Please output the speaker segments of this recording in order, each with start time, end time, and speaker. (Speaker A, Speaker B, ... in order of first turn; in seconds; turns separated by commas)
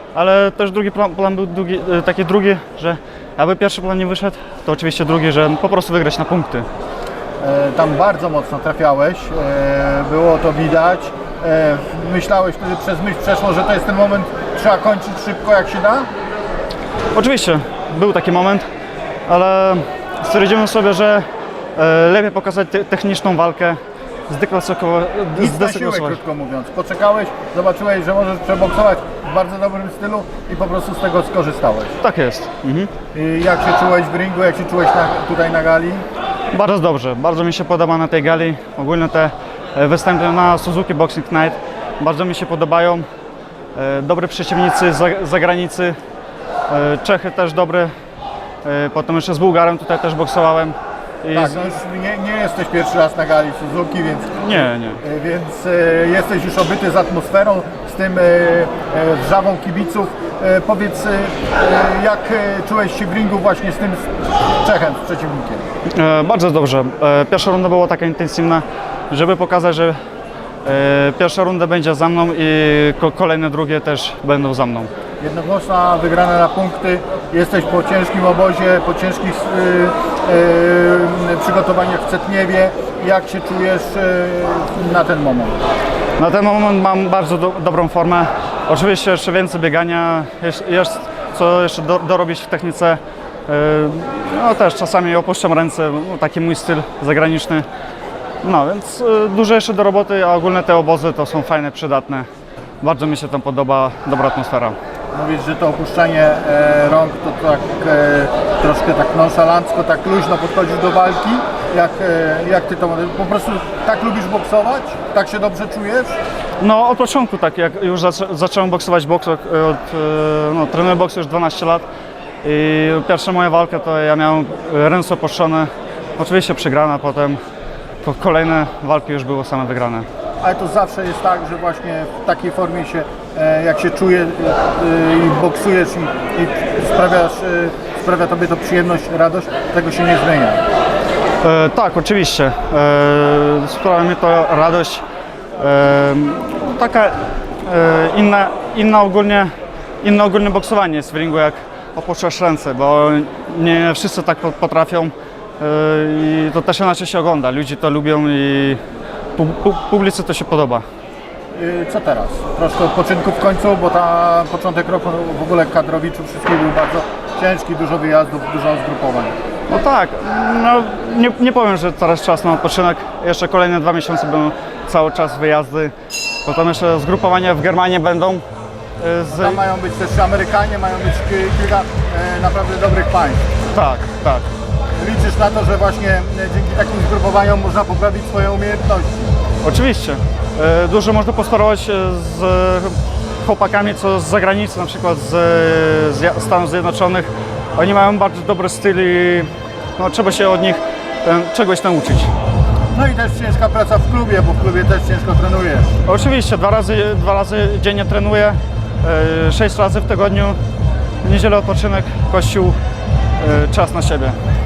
Speaker A: 0.1-6.7, Speaker B: 7.4-16.1, Speaker A: 17.1-18.6, Speaker A: 19.3-21.2, Speaker A: 21.8-26.2, Speaker B: 25.4-32.0, Speaker A: 32.0-32.9, Speaker B: 33.1-36.0, Speaker A: 36.5-43.0, Speaker A: 43.8-45.9, Speaker A: 46.7-47.9, Speaker A: 48.6-51.6, Speaker B: 51.3-65.7, Speaker A: 54.4-55.0, Speaker A: 65.9-69.9, Speaker A: 70.6-74.9, Speaker B: 75.2-85.6, Speaker A: 86.2-97.6, Speaker A: 98.4-102.2, Speaker A: 102.8-104.8, Speaker B: 105.1-116.2, Speaker A: 116.6-121.8, Speaker A: 122.4-127.4, Speaker A: 128.0-130.1, Speaker B: 130.4-140.6, Speaker A: 141.4-145.0, Speaker A: 145.6-149.5, Speaker A: 150.0-158.8, Speaker A: 159.3-160.8, Speaker B: 161.5-169.3, Speaker A: 169.7-175.9, Speaker A: 176.4-178.4, Speaker A: 179.0-179.6, Speaker B: 179.3-183.4, Speaker A: 183.7-184.5, Speaker B: 184.9-189.3, Speaker A: 189.6-202.3, Speaker B: 202.9-205.9, Speaker A: 206.1-210.6, Speaker A: 211.2-212.8, Speaker A: 213.4-214.3